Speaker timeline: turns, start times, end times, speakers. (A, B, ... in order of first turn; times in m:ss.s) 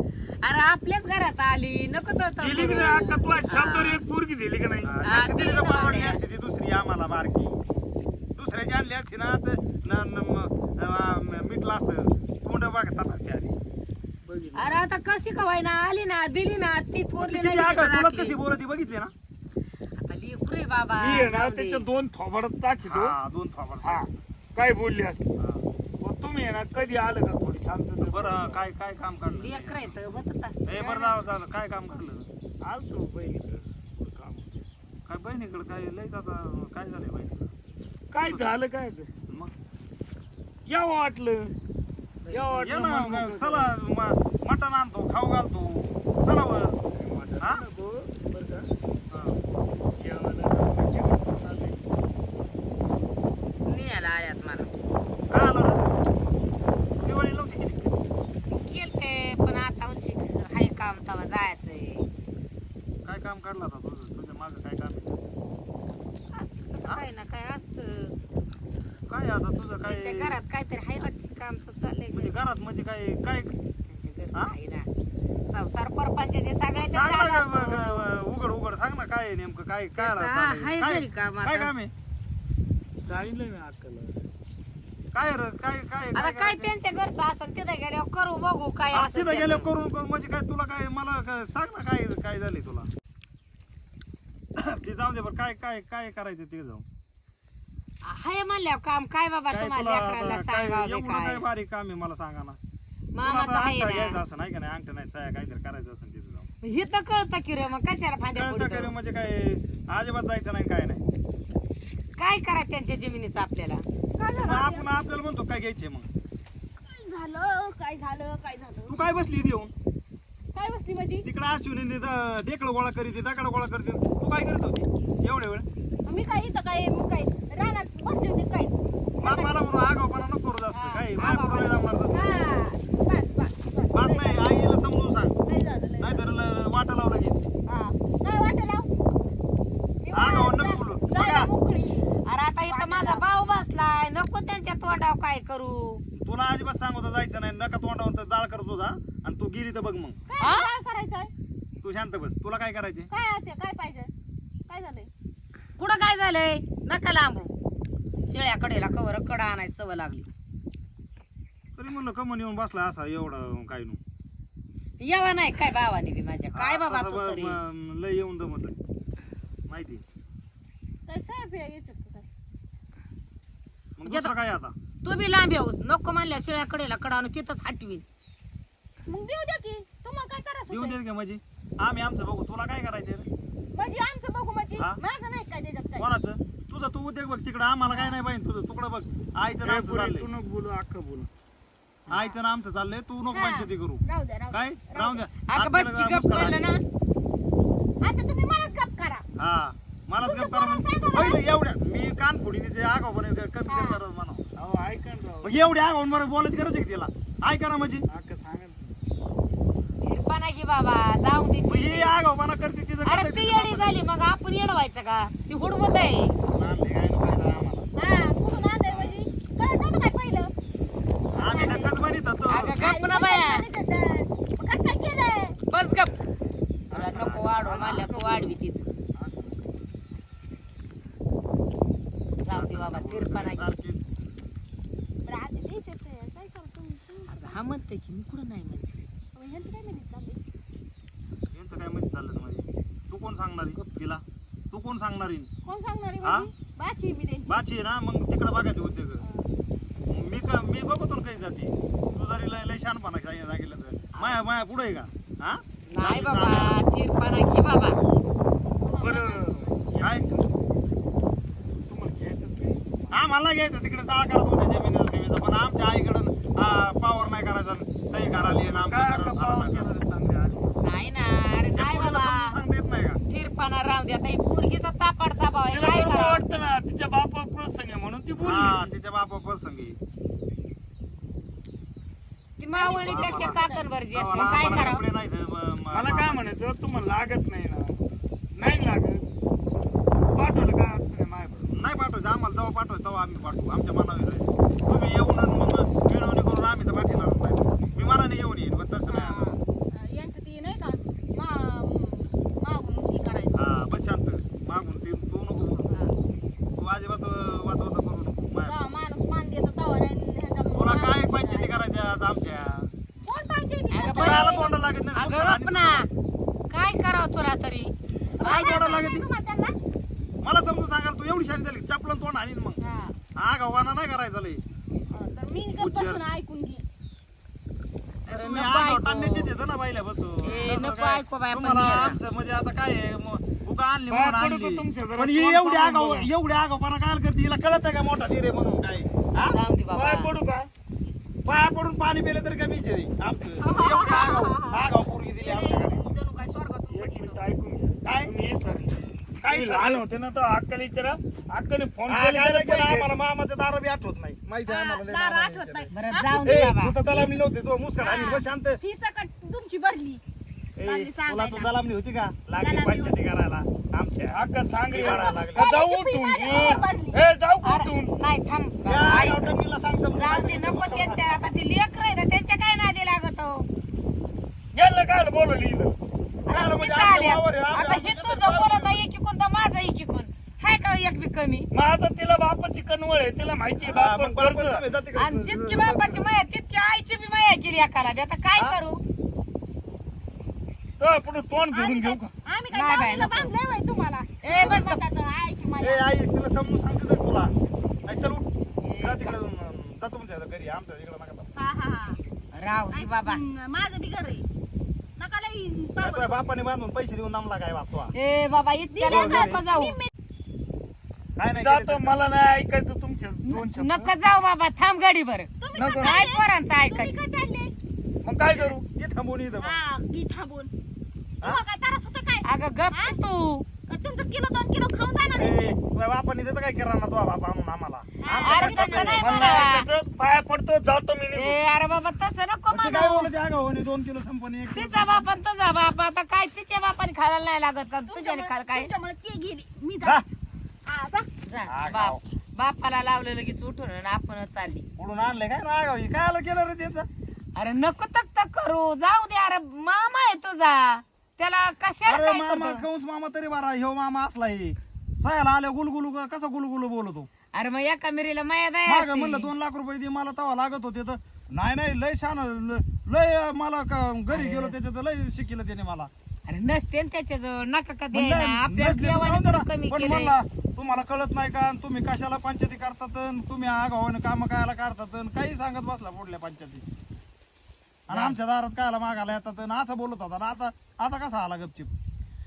0:00.4-0:04.0 A
0:02.4-0:05.0 B
0:04.8-0:07.6 C
0:05.0-0:06.2 A
0:08.4-0:13.6 C
0:14.2-0:14.8 B
0:14.6-0:18.4 A
0:17.2-0:19.1 C
0:19.9-0:21.8 A
0:21.0-0:23.1 B
0:22.9-0:24.1 C
0:23.8-0:25.3 B
0:25.4-0:25.6 C
0:26.0-0:28.6 B
0:28.0-0:30.0 C
0:29.3-0:31.2 A
0:30.7-0:32.3 C
0:32.6-0:34.6 B
0:35.1-0:37.5 C
0:38.1-0:39.1 B
0:38.2-0:38.6 C
0:40.7-0:41.5 B
0:42.3-0:43.7 B
0:42.5-0:46.8 C
0:46.9-0:48.7 B
0:49.1-0:49.4 C
0:49.9-0:51.8 B
0:53.6-0:54.7 A
0:55.3-0:55.8 C
0:57.0-0:58.0 C
0:58.5-1:02.0 A
1:03.0-1:05.2 C
1:06.3-1:08.2 A
1:09.1-1:10.4 C
1:09.8-1:12.3 A
1:12.1-1:13.5 C
1:13.8-1:14.9 A
1:15.4-1:18.0 A
1:16.8-1:21.9 C
1:20.0-1:21.7 A
1:23.0-1:24.2 B
1:25.1-1:26.7 C
1:26.1-1:29.7 A
1:28.9-1:32.9 C
1:34.6-1:36.8 C
1:38.0-1:41.4 A
1:39.5-1:42.6 C
1:43.1-1:44.2 A
1:43.2-1:46.5 C
1:46.6-1:48.9 A
1:48.3-1:51.0 C
1:52.2-1:53.8 A
1:54.2-1:54.9 D
1:54.4-1:56.1 C
1:56.8-1:59.0 D
1:58.9-1:59.7 C
2:00.5-2:01.3 D
2:01.2-2:05.6 C
2:06.0-2:09.6 D
2:09.2-2:12.3 C
2:10.7-2:14.5 D
2:13.9-2:15.3 C
2:15.5-2:16.2 D
2:16.0-2:17.5 C
2:17.7-2:19.2 D
2:20.0-2:22.1 D
2:20.1-2:21.5 C
2:22.2-2:26.0 A
2:22.6-2:23.2 D
2:26.1-2:30.2 C
2:30.3-2:31.3 D
2:30.4-2:30.7 A
2:31.8-2:33.1 C
2:33.1-2:34.1 D
2:34.7-2:35.1 D
2:35.8-2:37.5 A
2:38.3-2:40.3 A
2:41.8-2:44.0 C
2:45.0-2:47.6 A
2:46.5-2:48.8 C
2:49.7-2:50.0 C
2:51.1-2:52.3 D
2:54.0-2:54.7 C
2:54.0-2:54.3 A
2:55.0-2:58.0 A
2:59.1-3:01.0 D
3:00.7-3:03.3 C
3:03.7-3:06.1 D
3:06.0-3:10.3 C
3:09.6-3:11.3 B
3:12.1-3:16.6 C
3:12.1-3:12.4 D
3:13.3-3:15.2 D
3:15.5-3:16.8 A
3:18.0-3:19.2 D
3:19.4-3:24.4 C
3:20.2-3:21.4 D
3:23.7-3:24.0 D
3:24.6-3:25.6 B
3:25.4-3:28.0 C
3:28.1-3:29.0 B
3:30.0-3:32.1 A
3:31.6-3:34.0 C
3:33.0-3:36.4 A
3:36.5-3:37.9 C
3:38.0-3:40.5 D
3:38.9-3:39.2 C
3:41.3-3:42.9 C
3:41.4-3:42.0 D
3:42.5-3:43.6 A
3:42.7-3:45.6 D
3:45.7-3:46.2 A
3:46.9-3:48.1 C
3:46.9-3:48.9 A
3:47.0-3:48.6 B
3:49.1-3:49.8 B
3:52.4-3:53.7 A
3:52.5-3:54.1 C
3:55.2-3:57.4 D
3:57.3-3:59.0 A
3:59.3-4:00.4 D
4:01.5-4:05.5 C
4:05.6-4:07.6 D
4:06.2-4:06.5 C
4:07.5-4:09.2 C
4:10.1-4:16.8 C
4:14.1-4:14.4 A
4:15.9-4:18.0 A
4:18.8-4:19.8 D
4:19.0-4:20.5 B
4:20.0-4:20.4 C
4:21.9-4:23.2 B
4:23.1-4:29.9 C
4:28.8-4:30.7 B
4:30.8-4:32.5 A
4:31.7-4:33.2 C
4:33.3-4:36.4 A
4:35.7-4:38.9 B
4:38.4-4:40.0 C
4:42.6-4:45.0 A
4:42.8-4:44.8 D
4:42.9-4:43.6 C
4:44.1-4:46.5 C
4:45.9-4:48.0 B
4:48.6-4:49.2 B
4:50.3-4:51.7 B
4:51.7-4:59.6 C
4:59.1-5:03.6 D
5:03.5-5:05.9 C
5:06.8-5:08.8 C
5:08.6-5:11.7 D
5:10.7-5:12.9 C
5:13.2-5:14.8 D
5:13.9-5:16.1 A
5:14.0-5:16.0 C
5:16.7-5:17.9 A
5:18.4-5:19.8 D
5:18.4-5:19.3 C
5:18.4-5:19.0 A
5:20.4-5:22.8 C
5:22.8-5:23.1 D
5:23.4-5:24.6 C
5:25.1-5:26.8 D
5:25.8-5:26.2 C
5:28.3-5:39.6 C
5:28.3-5:29.5 A
5:30.4-5:30.8 D
5:30.5-5:32.2 A
5:34.1-5:36.3 B
5:39.4-5:40.3 A
5:39.9-5:40.7 B
5:41.4-5:46.0 C
5:43.6-5:44.8 D
5:45.4-5:47.4 D
5:46.9-5:53.1 B
5:48.0-5:48.3 C
5:49.4-5:50.0 C
5:52.1-5:55.9 C
5:54.7-5:57.4 D
5:55.9-5:57.0 A
5:56.4-5:58.8 C
5:58.0-6:00.2 D
6:00.8-6:05.8 C
6:00.8-6:01.7 D
6:02.6-6:03.1 D
6:04.3-6:08.1 B
6:05.0-6:07.2 D
6:06.4-6:06.8 A
6:07.6-6:09.5 A
6:08.8-6:11.4 C
6:10.1-6:13.7 A
6:14.7-6:16.0 B
6:16.4-6:21.7 A
6:16.5-6:19.0 C
6:21.7-6:24.8 B
6:23.8-6:26.2 C
6:25.1-6:29.0 A
6:31.0-6:32.3 B
6:31.7-6:36.0 D
6:32.7-6:33.5 A
6:34.4-6:35.0 A
6:34.6-6:34.8 C
6:35.8-6:37.5 C
6:38.0-6:38.5 C
6:38.8-6:39.4 A
6:39.0-6:41.5 C
6:41.6-6:42.2 D
6:42.5-6:43.4 A
6:42.9-6:44.4 D
6:45.2-6:46.4 D
6:46.0-6:48.1 C
6:48.1-6:50.0 A
6:48.9-6:50.1 D
6:49.0-6:49.6 C
6:51.4-6:52.2 C
6:51.5-6:54.1 B
6:53.4-6:57.2 A
6:55.6-6:57.7 D
6:55.7-6:56.2 B
6:58.2-6:58.8 B
6:58.5-6:59.8 C
6:59.6-7:00.7 D
7:01.4-7:03.2 D
7:02.4-7:03.6 A
7:03.9-7:05.7 D
7:05.4-7:09.2 C
7:08.2-7:09.6 D
7:08.4-7:09.8 A
7:09.2-7:11.6 B
7:11.3-7:13.3 A
7:12.7-7:15.2 C
7:14.7-7:18.9 A
7:18.0-7:20.2 D
7:20.8-7:21.3 D
7:21.4-7:24.8 A
7:21.7-7:22.2 C
7:25.0-7:27.1 C
7:27.6-7:32.8 A
7:32.0-7:37.3 C
7:37.5-7:39.5 A
7:38.8-7:46.1 C
7:44.3-7:44.7 A
7:46.5-7:50.3 A
7:48.1-7:56.8 C
7:58.1-8:01.9 C
7:58.1-7:58.3 A